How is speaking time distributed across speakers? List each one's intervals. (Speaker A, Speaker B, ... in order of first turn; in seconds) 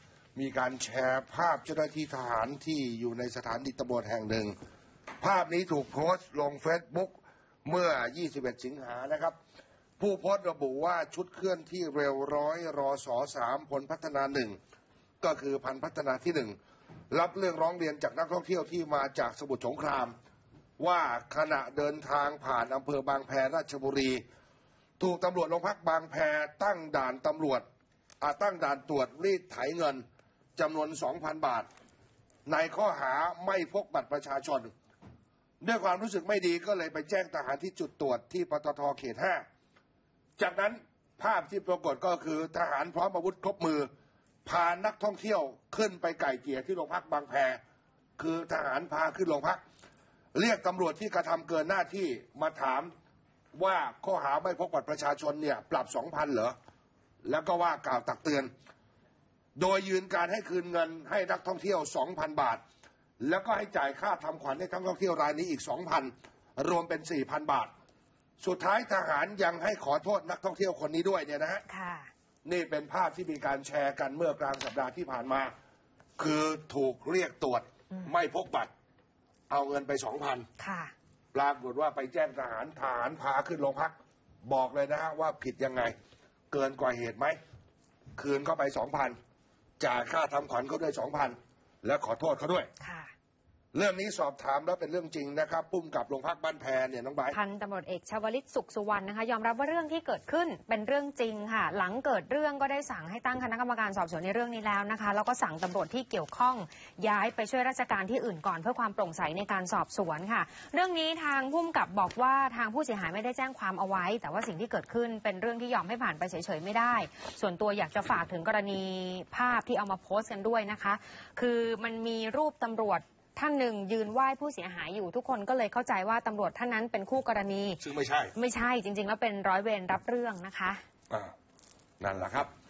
Speaker A: 0.3-4.5, 5.2-9.3, 10.0-14.6, 15.2-16.6, 17.1-20.1, 20.8-24.2, 25.0-27.6, 28.2-30.0, 30.6-31.7, 32.5-34.7, 35.6-39.4, 40.4-43.9, 44.4-47.6, 48.2-49.6, 50.3-52.9, 53.5-56.5, 57.2-58.5, 59.5-62.6, 63.2-67.7, 68.4-71.6, 72.4-75.5, 76.2-78.7, 79.5-80.5, 81.3-83.9, 84.4-85.9, 86.5-87.4, 88.2-89.2, 89.8-92.7, 93.7-97.4, 127.8-128.3, 132.0-132.5
Speaker B: 71.7-72.1, 80.6-80.9, 92.8-93.1, 97.3-127.8, 128.3-130.8